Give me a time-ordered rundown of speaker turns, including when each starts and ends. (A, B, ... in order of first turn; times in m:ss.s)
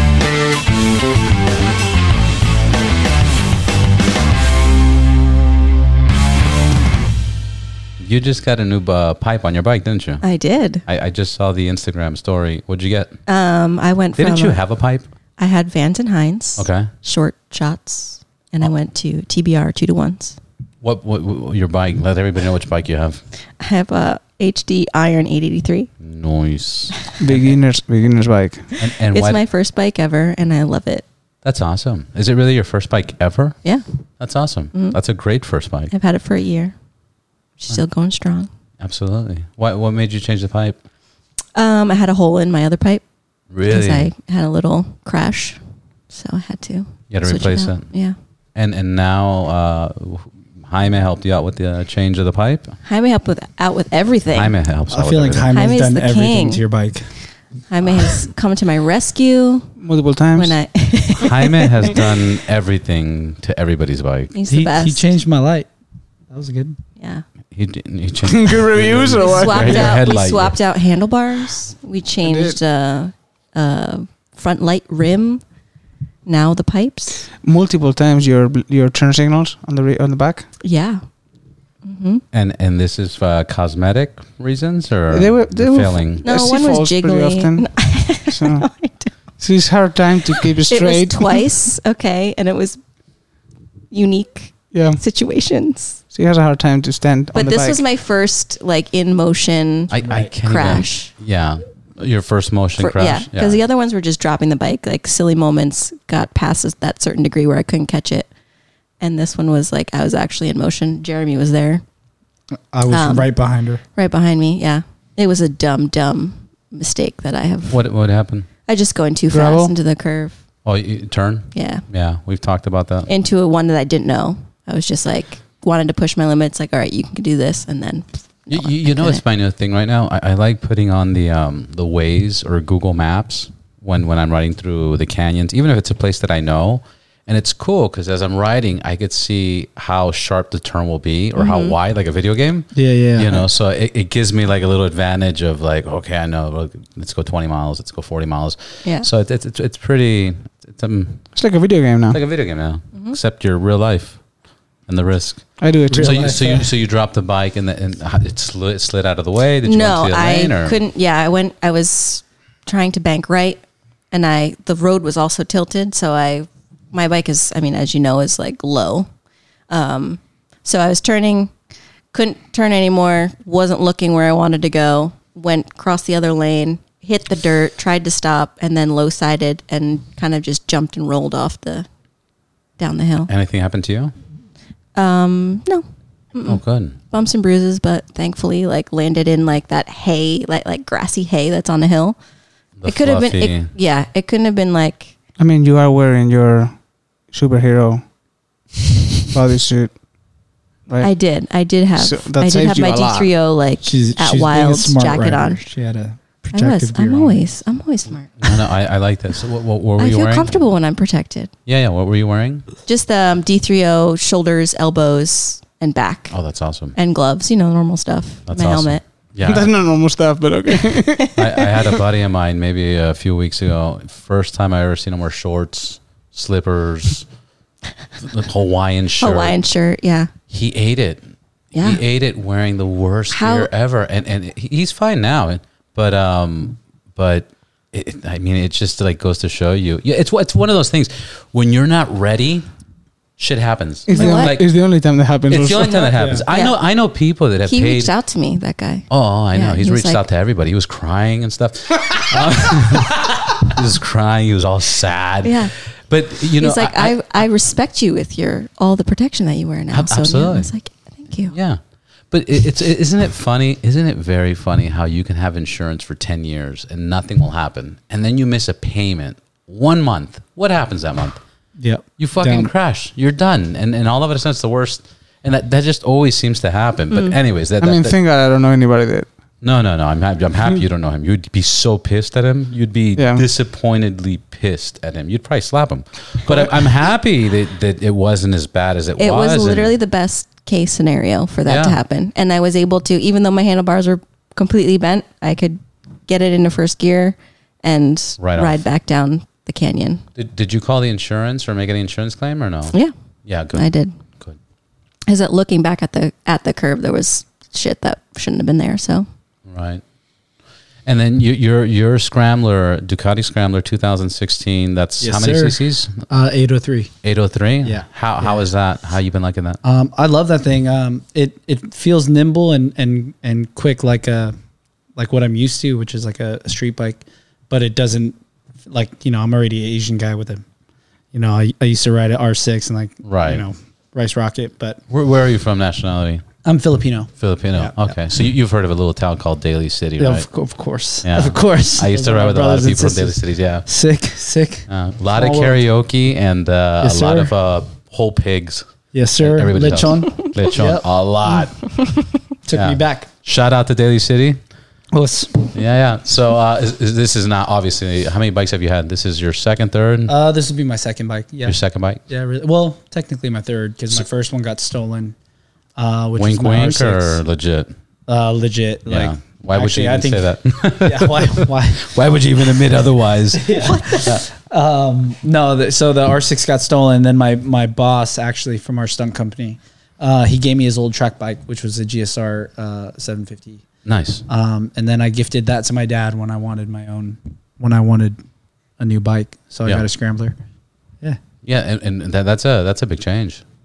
0:08.0-0:10.2 A
0:10.2-0:10.8 B
0:10.9-0:13.2 A
0:13.3-0:14.6 B
0:14.2-0:15.0 A
0:15.4-0:20.4 B
0:16.6-0:16.9 A
0:20.8-0:23.2 A
0:23.6-0:25.9 B
0:26.0-0:27.6 A
0:27.2-0:28.7 C
0:28.8-0:31.0 B
0:28.8-0:29.4 A
0:31.4-0:33.6 A
0:34.2-0:35.9 A
0:35.9-0:36.7 B
0:37.6-0:38.5 B
0:38.8-0:40.8 A
0:41.6-0:43.0 B
0:43.5-0:44.1 A
0:43.7-0:45.6 B
0:46.1-0:48.2 B
0:47.1-0:47.9 A
0:48.6-0:52.8 A
0:52.8-0:54.5 B
0:54.3-0:55.5 A
0:54.9-0:57.1 D
0:55.5-0:56.6 B
0:57.7-0:59.8 B
0:59.8-1:00.6 C
1:00.4-1:02.2 B
1:01.2-1:04.3 A
1:04.3-1:05.0 B
1:04.5-1:05.7 D
1:06.3-1:06.8 D
1:07.0-1:07.2 B
1:07.5-1:10.6 A
1:08.2-1:10.0 C
1:09.2-1:15.4 B
1:12.2-1:12.6 C
1:16.3-1:17.3 B
1:17.4-1:20.5 C
1:20.6-1:21.0 B
1:21.8-1:22.2 B
1:22.3-1:26.3 A
1:25.1-1:27.7 C
1:26.2-1:29.1 B
1:28.3-1:28.7 C
1:29.4-1:31.4 C
1:30.3-1:32.8 B
1:33.9-1:36.0 B
1:34.7-1:35.0 C
1:36.1-1:37.8 C
1:37.3-1:41.1 B
1:39.9-1:43.6 A
1:40.0-1:40.3 D
1:42.8-1:48.3 B
1:49.0-1:51.8 B
1:52.7-1:53.8 D
1:52.9-1:53.3 B
1:54.0-1:57.8 B
1:57.7-1:58.5 A
1:58.7-2:00.3 B
1:59.3-1:59.7 C
2:00.6-2:03.1 A
2:01.5-2:01.8 B
2:03.1-2:09.2 B
2:08.5-2:31.3 A
2:21.4-2:21.8 B
2:22.7-2:23.5 D
2:31.3-2:32.2 C
2:32.1-2:34.2 A
2:34.9-2:40.8 A
2:35.6-2:36.6 C
2:35.9-2:36.7 D
2:39.6-2:43.6 B
2:44.1-2:49.1 B
2:49.7-2:51.5 B
2:52.1-3:01.9 B
3:02.8-3:03.3 B
3:03.3-3:04.1 A
3:05.0-3:12.2 B
3:06.4-3:07.0 A
3:12.8-3:13.7 A
3:12.8-3:15.1 B
3:15.4-3:16.8 C
3:17.3-3:18.0 C
3:19.3-3:20.0 C
3:21.0-3:25.6 B
3:22.0-3:23.3 C
3:23.8-3:27.4 D
3:26.5-3:28.6 B
3:28.4-3:30.6 A
3:30.0-3:31.5 B
3:31.7-3:32.7 A
3:32.9-3:36.4 B
3:36.3-3:37.0 A
3:37.0-3:39.0 B
3:38.5-3:39.7 A
3:39.5-3:41.7 C
3:40.7-3:41.3 B
3:41.4-3:47.3 A
3:48.2-3:49.6 A
3:49.2-3:50.3 B
3:50.5-4:02.7 A
3:51.7-3:52.0 B
3:53.3-3:53.7 B
4:03.4-4:04.7 A
4:04.1-4:06.1 C
4:04.1-4:04.6 B
4:05.5-4:08.1 A
4:06.2-4:06.4 D
4:06.3-4:06.8 B
4:07.7-4:10.2 B
4:09.1-4:17.4 A
4:15.4-4:15.7 B
4:16.6-4:21.5 B
4:19.9-4:20.7 A
4:21.5-4:21.8 A
4:22.3-4:31.4 A
4:31.8-4:32.7 D
4:32.2-4:38.2 A
4:37.8-4:39.3 C
4:39.6-4:49.9 A
4:43.2-4:43.4 C
4:49.2-5:00.2 B
4:51.7-4:52.0 A
4:58.4-4:58.8 A
5:00.4-5:03.0 A
5:03.5-5:03.9 A
5:03.7-5:04.1 B
5:05.3-5:09.3 B
5:09.7-5:10.0 A
5:11.1-5:16.3 A
5:15.2-5:17.1 D
5:17.2-5:19.8 A
5:17.8-5:18.6 D
5:19.8-5:24.6 D
5:25.2-5:30.6 D
5:31.3-5:35.0 D
5:33.2-5:33.6 A
5:35.1-5:36.4 A
5:36.6-5:38.1 D
5:37.4-5:40.5 A
5:40.2-5:45.8 D
5:41.2-5:43.9 A
5:44.9-5:51.8 A
5:47.0-5:47.5 D
5:49.1-5:51.0 D
5:52.6-5:53.3 D
5:52.7-5:54.6 A
5:55.1-5:55.7 D
5:55.7-6:00.3 A
6:00.3-6:05.4 D
6:01.6-6:02.2 A
6:06.0-6:07.4 D
6:06.4-6:07.9 A
6:08.3-6:12.1 D
6:09.1-6:14.4 A
6:13.5-6:23.8 D
6:24.0-6:24.4 A
6:24.5-6:28.4 D
6:29.0-6:30.6 D
6:31.6-6:33.6 A